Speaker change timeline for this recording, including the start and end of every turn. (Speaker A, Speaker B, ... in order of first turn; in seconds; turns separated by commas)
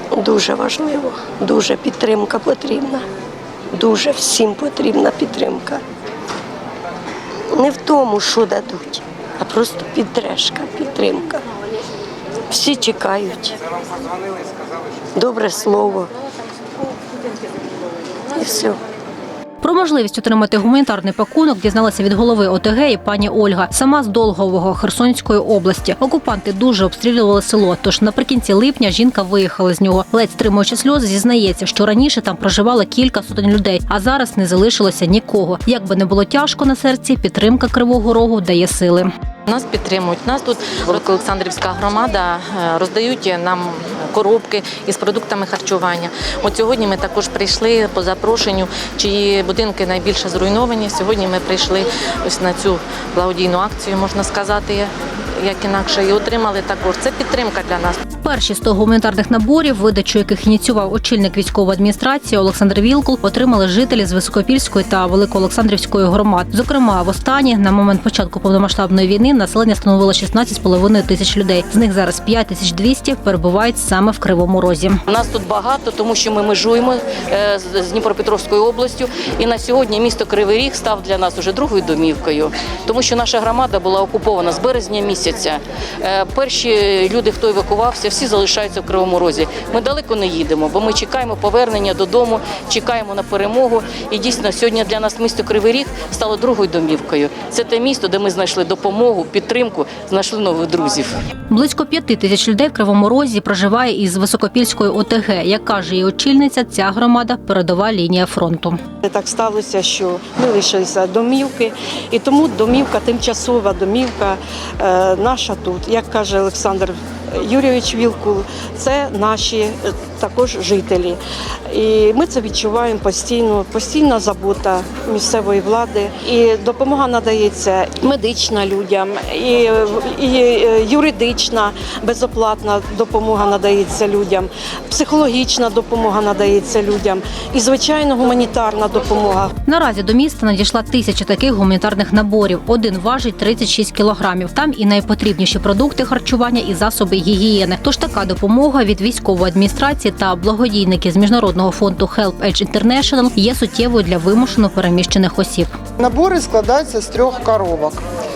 Speaker A: 0.2-3.0, Speaker A: 3.8-5.8, Speaker A: 7.5-11.4, Speaker A: 12.5-13.5, Speaker A: 15.2-16.1, Speaker A: 18.3-18.8, Speaker B: 19.6-39.1, Speaker C: 39.5-58.0, Speaker B: 58.2-75.0, Speaker D: 75.1-101.1, Speaker B: 101.5-108.8, Speaker E: 109.0-139.5, Speaker B: 139.6-155.8, Speaker F: 156.0-158.0